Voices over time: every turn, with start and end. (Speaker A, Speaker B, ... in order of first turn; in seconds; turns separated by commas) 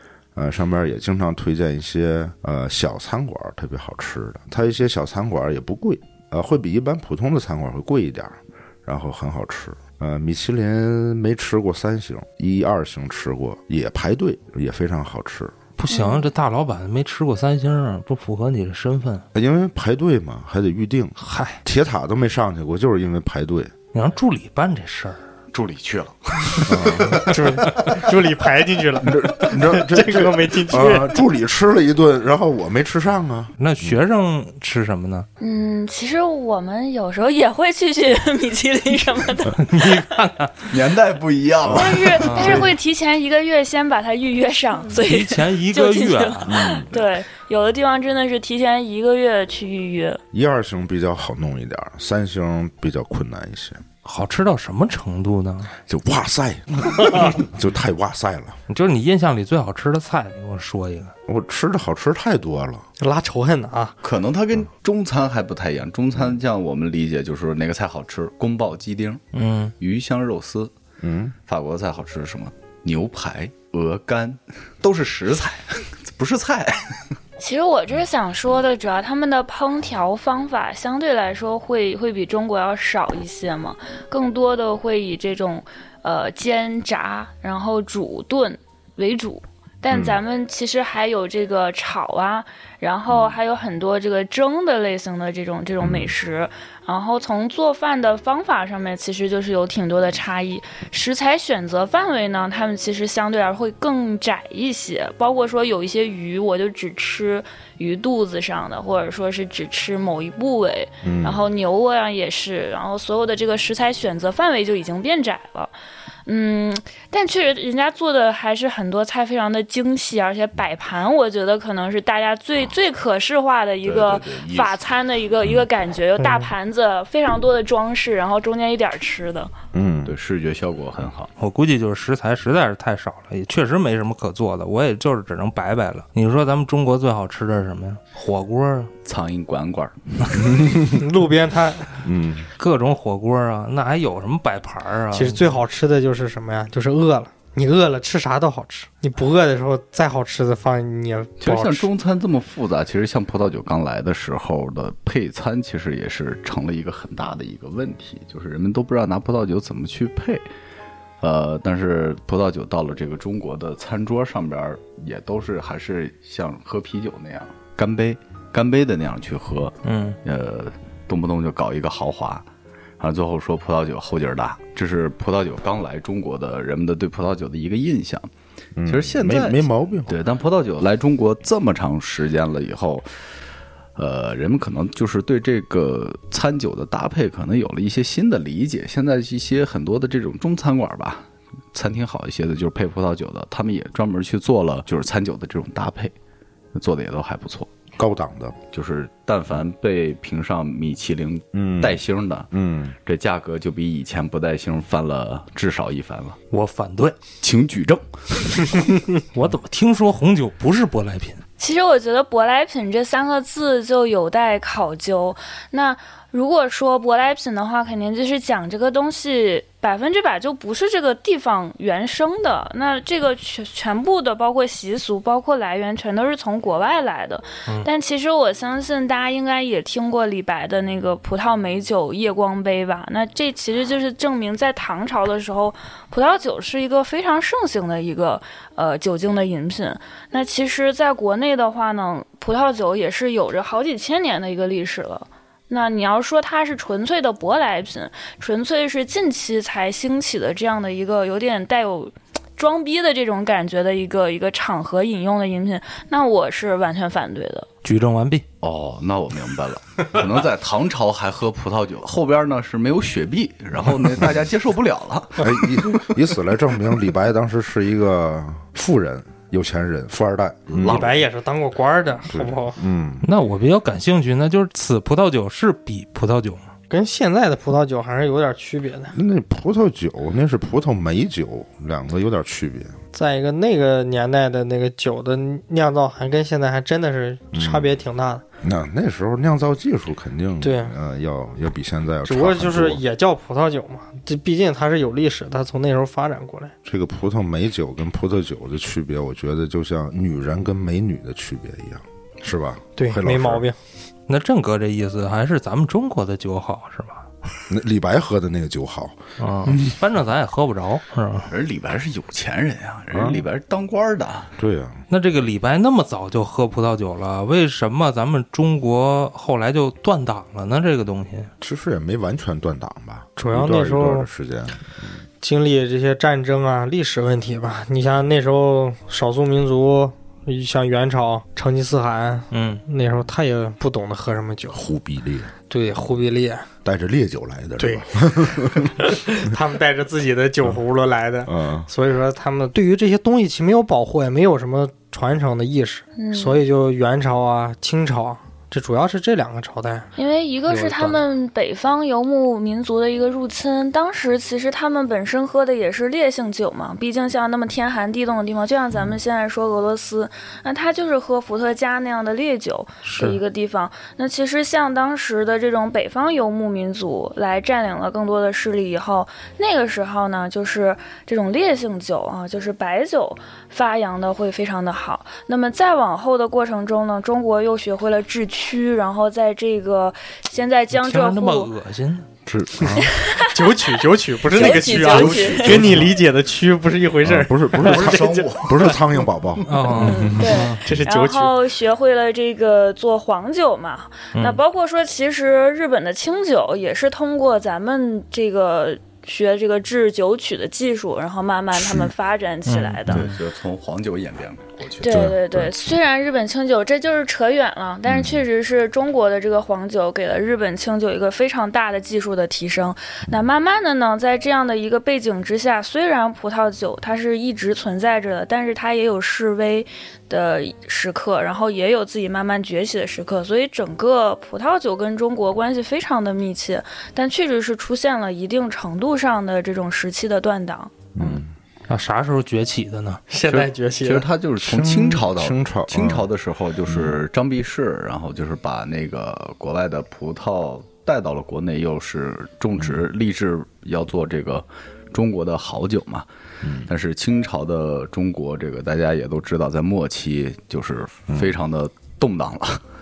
Speaker A: 0.3-15.6, Speaker B: 15.8-19.2, Speaker C: 15.9-16.3, Speaker A: 19.3-23.7, Speaker B: 21.2-21.6, Speaker B: 23.9-25.2, Speaker D: 25.5-28.0, Speaker A: 26.7-27.2, Speaker E: 27.3-31.1, Speaker A: 29.0-34.0, Speaker B: 33.6-35.3, Speaker C: 35.4-40.1, Speaker B: 39.6-40.5, Speaker D: 40.6-42.7, Speaker C: 41.7-50.2, Speaker B: 42.2-42.7, Speaker B: 45.0-46.6, Speaker A: 46.5-46.9, Speaker A: 50.3-53.8, Speaker B: 54.0-55.7, Speaker A: 55.9-58.6, Speaker B: 58.7-61.1, Speaker A: 61.3-62.9, Speaker E: 63.0-64.0, Speaker D: 64.0-69.2, Speaker B: 69.3-69.7, Speaker D: 69.8-70.7, Speaker A: 71.0-71.3, Speaker D: 71.5-77.1, Speaker C: 77.4-115.7, Speaker A: 89.9-90.2, Speaker A: 95.8-96.1, Speaker A: 111.0-111.4, Speaker C: 116.2-129.5, Speaker D: 123.8-124.8, Speaker E: 126.2-126.5, Speaker A: 129.7-130.2, Speaker D: 130.1-131.3, Speaker B: 131.4-138.9, Speaker D: 139.0-140.5, Speaker A: 140.4-141.0, Speaker E: 141.0-142.0, Speaker A: 142.0-142.5, Speaker B: 142.6-145.6, Speaker E: 145.1-151.9, Speaker D: 151.4-160.4, Speaker D: 161.2-172.4, Speaker B: 169.8-170.2, Speaker D: 173.0-178.3, Speaker A: 178.8-180.2, Speaker D: 178.9-183.1, Speaker D: 183.9-196.1, Speaker D: 196.7-197.7, Speaker A: 198.0-198.6, Speaker D: 198.7-202.5, Speaker A: 201.5-202.9, Speaker D: 203.0-206.4, Speaker B: 206.5-207.2, Speaker D: 207.4-208.9, Speaker B: 209.3-211.4, Speaker C: 211.6-257.7, Speaker B: 257.8-258.4, Speaker D: 258.6-265.7, Speaker A: 265.4-271.1, Speaker D: 270.7-271.2, Speaker E: 270.8-272.8, Speaker A: 272.3-273.3, Speaker B: 273.2-276.7, Speaker E: 276.9-279.1, Speaker A: 279.1-283.0, Speaker E: 283.1-288.4, Speaker A: 287.5-288.0, Speaker A: 288.6-293.0, Speaker E: 290.6-290.9, Speaker E: 292.2-296.7, Speaker A: 296.8-303.6, Speaker E: 303.0-303.8, Speaker B: 304.3-307.3, Speaker A: 307.7-309.9, Speaker B: 309.4-311.5, Speaker D: 311.5-314.5, Speaker A: 313.1-313.4, Speaker A: 314.6-315.0, Speaker B: 315.1-321.5, Speaker A: 321.6-325.2, Speaker E: 323.4-324.3, Speaker E: 325.4-334.8, Speaker B: 332.5-332.8, Speaker A: 334.7-335.5, Speaker E: 335.7-336.7, Speaker A: 336.8-339.2, Speaker E: 337.8-350.1, Speaker A: 341.4-341.9, Speaker C: 346.1-346.6, Speaker C: 350.1-381.7, Speaker B: 363.0-363.4, Speaker B: 380.9-382.3, Speaker A: 382.4-383.1, Speaker C: 383.0-385.9, Speaker E: 383.5-389.0, Speaker D: 384.5-386.1, Speaker A: 387.2-390.5, Speaker D: 387.8-389.0, Speaker B: 389.7-390.8, Speaker C: 389.9-403.3, Speaker E: 390.4-391.5, Speaker B: 394.3-394.6, Speaker B: 402.6-403.3, Speaker D: 403.1-405.2, Speaker C: 405.0-431.1, Speaker A: 405.1-405.7, Speaker A: 408.1-408.4, Speaker A: 431.1-431.5, Speaker B: 431.9-433.2, Speaker E: 433.3-434.3, Speaker D: 433.4-446.3, Speaker A: 434.6-436.3, Speaker A: 436.9-437.2, Speaker A: 446.6-446.9, Speaker D: 446.9-452.8, Speaker A: 451.3-451.6